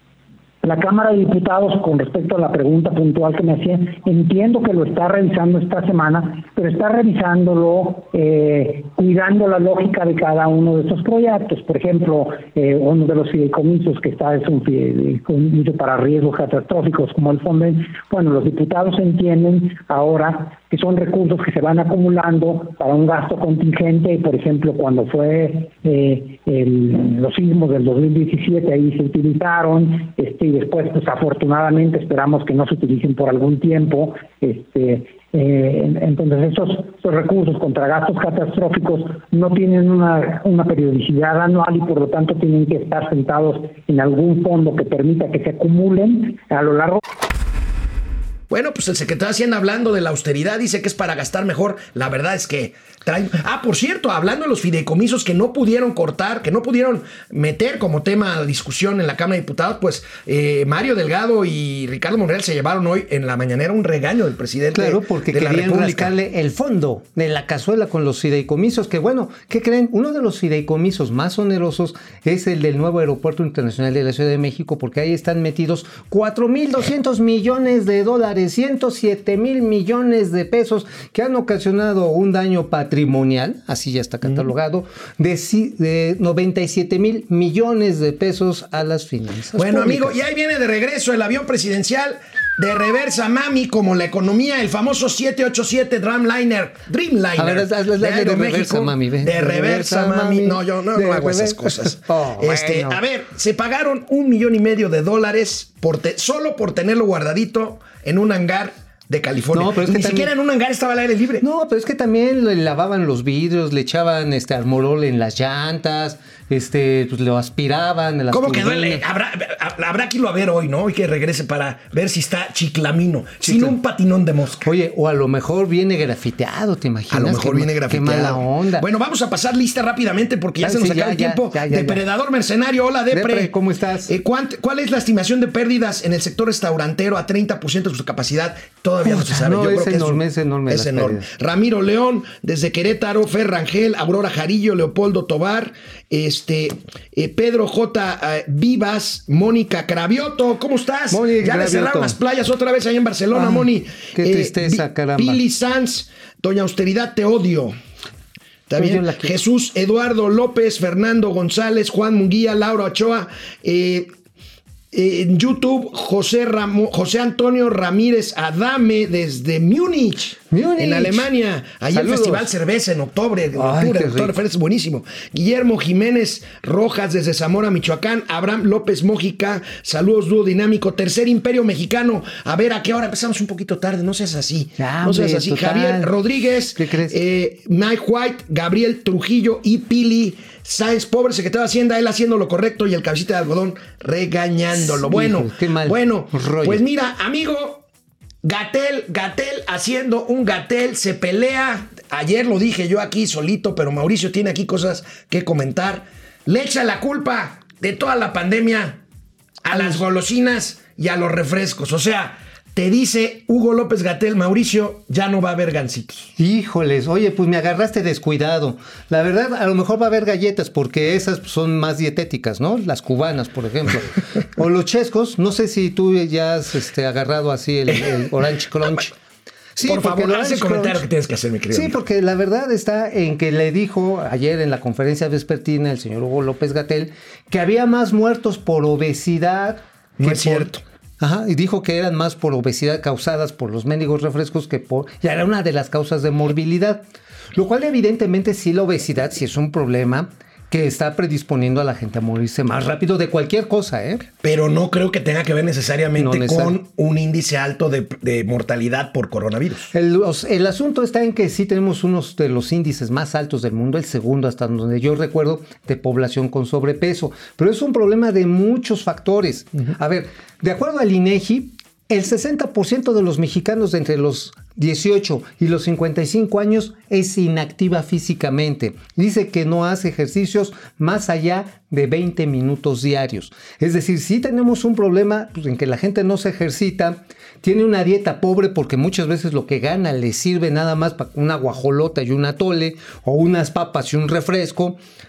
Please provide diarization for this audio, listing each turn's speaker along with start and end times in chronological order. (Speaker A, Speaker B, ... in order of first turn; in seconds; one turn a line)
Speaker A: 0.6-47.0
Speaker B: 48.5-66.1
Speaker C: 64.7-90.2
Speaker B: 89.6-111.4
Speaker C: 97.4-103.0
Speaker C: 109.5-110.3
Speaker C: 111.4-119.0
Speaker B: 118.3-124.7
Speaker C: 123.4-123.8
Speaker C: 124.6-128.8
Speaker B: 127.1-133.5
Speaker C: 130.6-132.0
Speaker C: 133.1-134.1
Speaker B: 134.1-157.8
Speaker C: 139.0-141.3
Speaker C: 151.1-152.2
Speaker C: 153.3-155.4
Speaker B: 158.7-164.1
Speaker C: 158.8-159.3
Speaker B: 164.9-197.8
Speaker C: 170.5-171.3
Speaker C: 171.9-172.5
Speaker C: 173.6-174.3
Speaker C: 184.8-186.1
Speaker C: 186.7-187.2
Speaker C: 194.7-196.8
Speaker B: 198.4-209.0
Speaker B: 209.6-216.3
Speaker C: 209.7-210.0
Speaker C: 216.3-229.1
Speaker B: 227.9-228.3
Speaker C: 229.8-231.0
Speaker B: 229.8-232.0
Speaker C: 231.7-254.3
Speaker B: 240.2-240.8
Speaker B: 254.4-259.9
Speaker C: 256.1-256.8
Speaker C: 259.9-295.0